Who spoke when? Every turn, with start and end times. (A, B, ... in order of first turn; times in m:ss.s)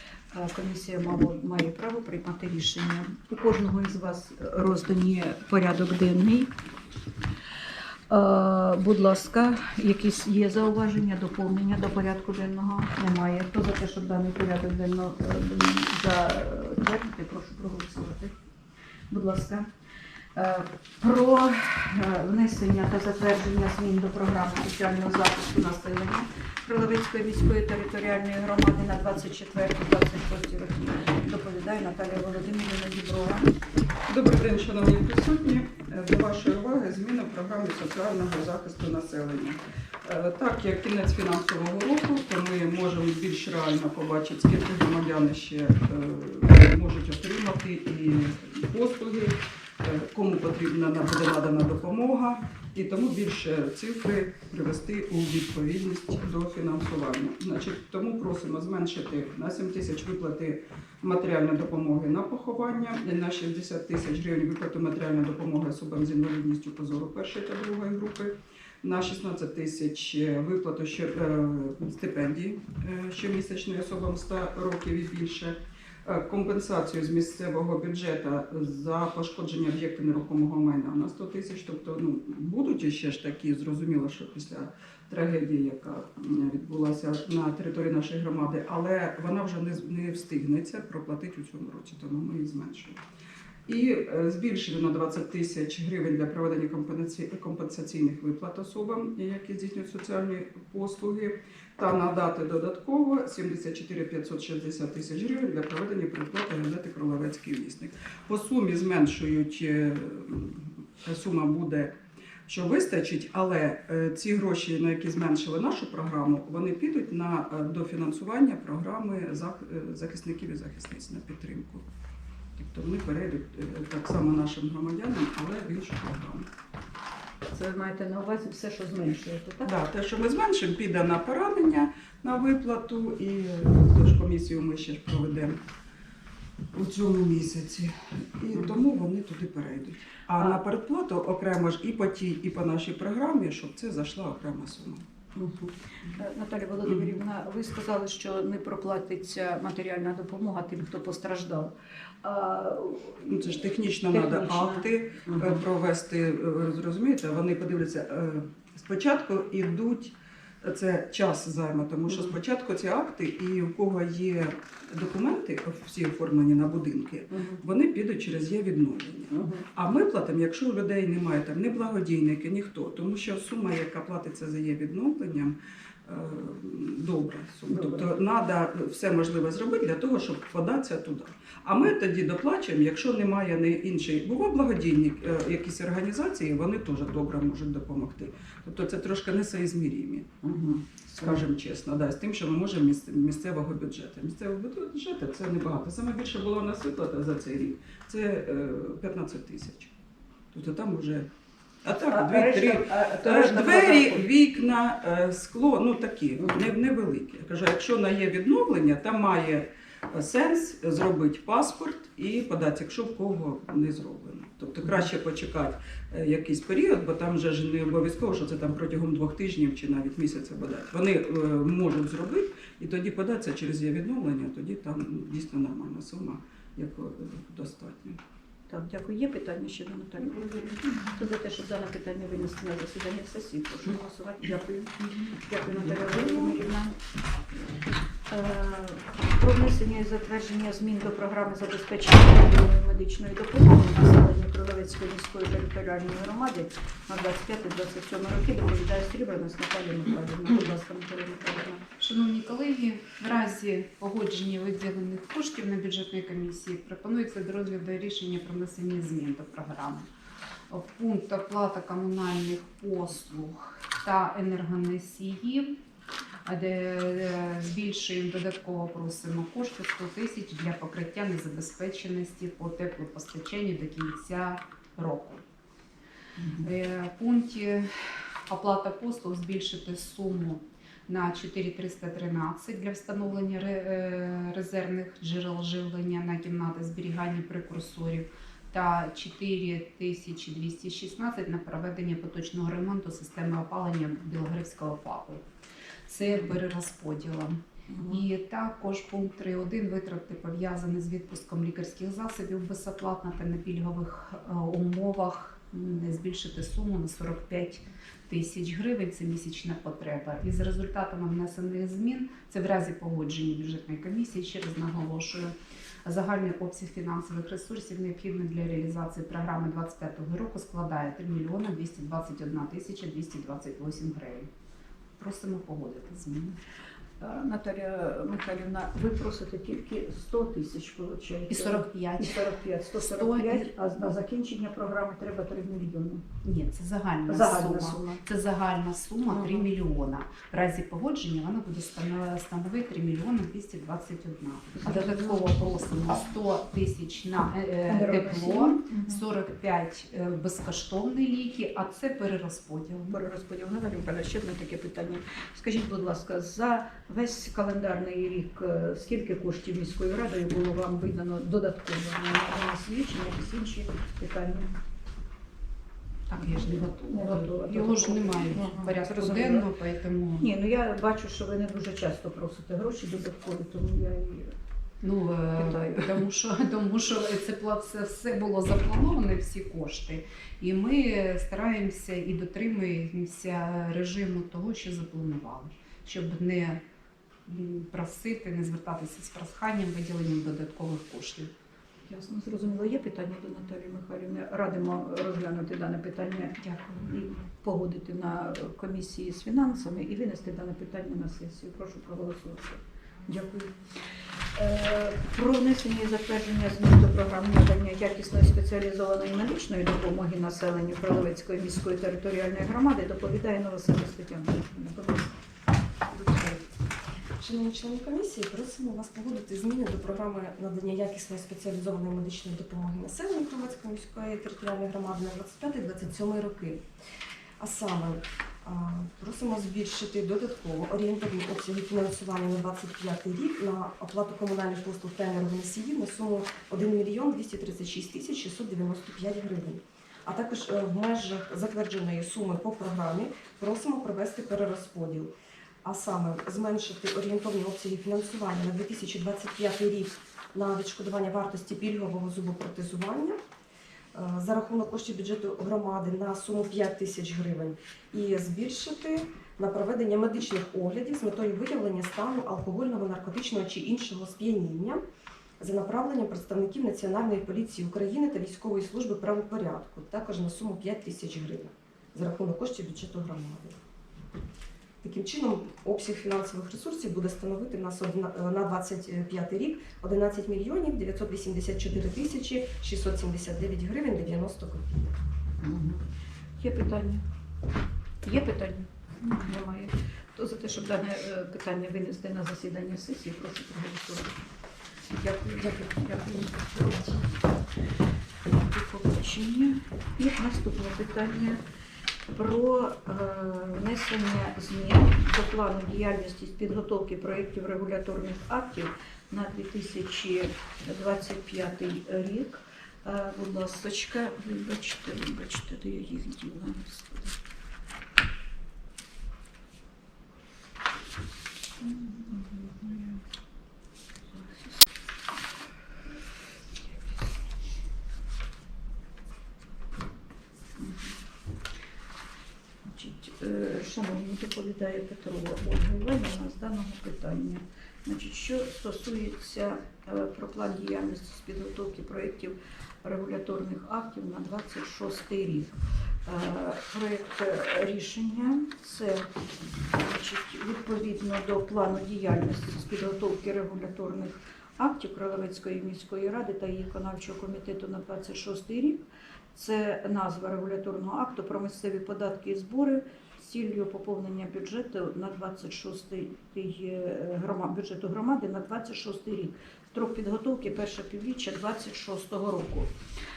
0:00.3-0:06.5 A
0:08.1-0:18.3 A
0:19.1-0:19.7 A
0:20.3-0:33.5 A
0:34.1-1:33.0 B
1:33.7-1:51.9 B
1:52.5-2:01.8 B
2:02.6-2:06.5 B
2:07.5-2:09.7 A
2:09.6-2:15.6 B
2:16.7-2:25.0 B
2:25.3-2:35.6 A
2:26.8-2:27.1 B
2:33.3-3:10.3 B
2:42.1-2:42.4 A
2:47.3-2:47.6 A
2:49.3-2:49.7 A
2:57.7-2:58.1 A
3:10.4-3:11.4 A
3:11.2-3:19.9 B
3:20.5-3:21.3 B
3:21.8-3:48.2 B
3:22.1-3:24.2 A
3:48.7-3:57.0 A
3:55.7-3:56.6 B
3:58.3-4:11.8 A
4:12.0-4:20.1 C
4:20.7-4:25.8 C
4:26.4-4:35.4 C
4:36.4-4:36.6 A
4:36.6-4:55.4 C
4:56.1-5:24.5 C
4:57.9-4:58.2 A
5:25.2-5:26.6 C
5:27.2-5:36.2 A
5:31.5-5:33.8 C
5:36.4-5:53.2 C
5:37.3-5:38.2 A
5:39.3-5:39.7 A
5:44.8-5:46.2 A
5:47.9-5:49.2 A
5:53.1-6:04.7 A
6:06.3-6:09.7 A
6:06.3-6:10.5 C
6:10.4-6:14.5 A
6:15.0-6:26.8 C
6:15.5-6:16.2 A
6:27.4-6:31.5 C
6:32.1-6:43.7 A
6:36.6-6:37.0 C
6:44.5-6:55.3 A
6:56.1-6:56.6 A
6:57.4-7:06.8 D
7:07.6-7:33.4 D
7:34.1-7:45.0 D
7:45.6-7:53.8 D
7:55.0-8:05.1 D
8:05.6-8:06.0 A
8:06.6-8:07.2 A
8:08.2-8:14.4 A
8:15.1-8:17.2 A
8:16.6-8:16.9 D
8:18.5-8:21.6 A
8:22.3-8:37.4 A
8:41.8-8:43.2 A
8:44.3-8:44.8 A
8:50.8-8:51.1 A
8:52.8-9:09.3 A
9:09.8-9:19.0 A
9:19.5-9:32.9 A